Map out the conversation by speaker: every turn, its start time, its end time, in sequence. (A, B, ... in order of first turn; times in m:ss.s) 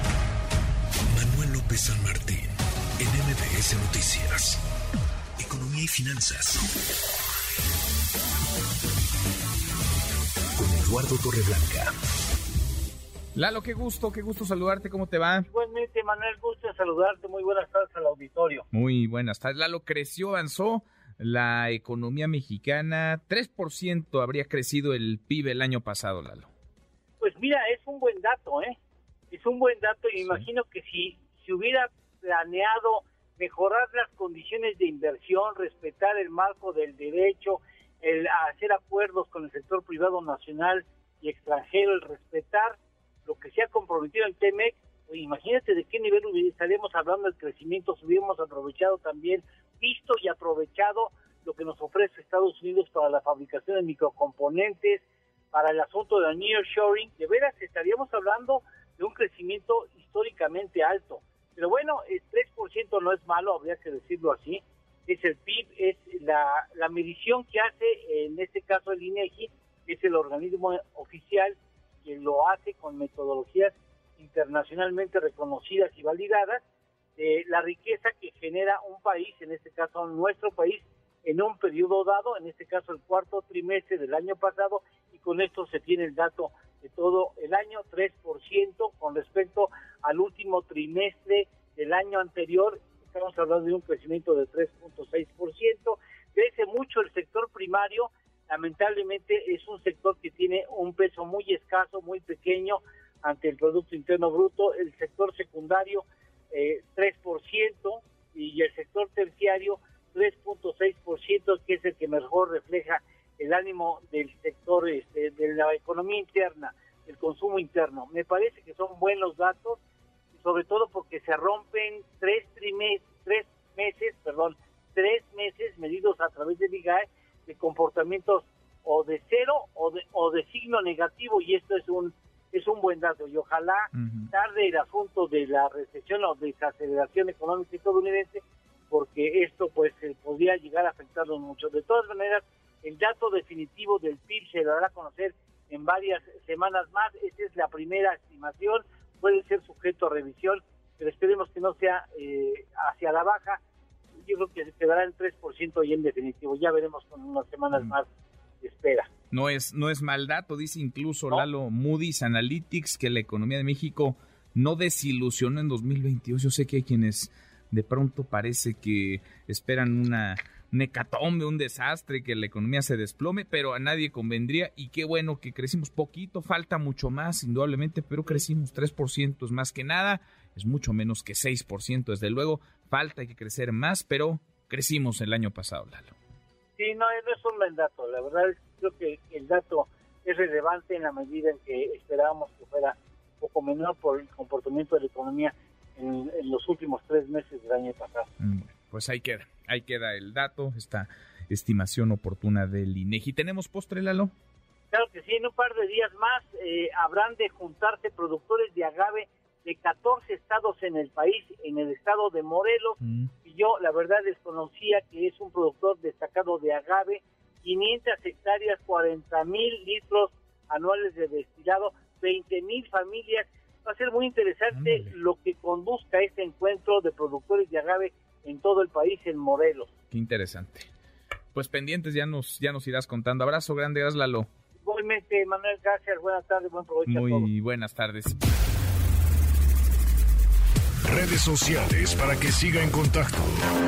0:01.1-0:04.6 A
0:05.4-0:06.6 A
0:10.6-0:11.9 A
0:13.3-0:15.5 B
0:15.4-0:18.6 C
0:18.7-0:26.5 B
0:27.2-0:28.8 C
0:29.3-1:16.6 C
1:17.2-1:59.8 C
2:00.3-2:33.6 C
2:13.9-2:14.3 B
2:34.2-2:38.1 C
2:38.6-2:39.1 C
2:39.3-3:06.1 B
3:06.8-3:18.3 C
3:18.4-3:24.3 B
3:24.9-3:49.9 C
3:33.0-3:33.3 B
3:44.7-3:45.1 B
3:50.1-3:50.9 B
3:51.5-3:54.5 B
3:54.8-3:57.5 C
3:57.1-3:58.4 B
4:01.0-4:03.6 A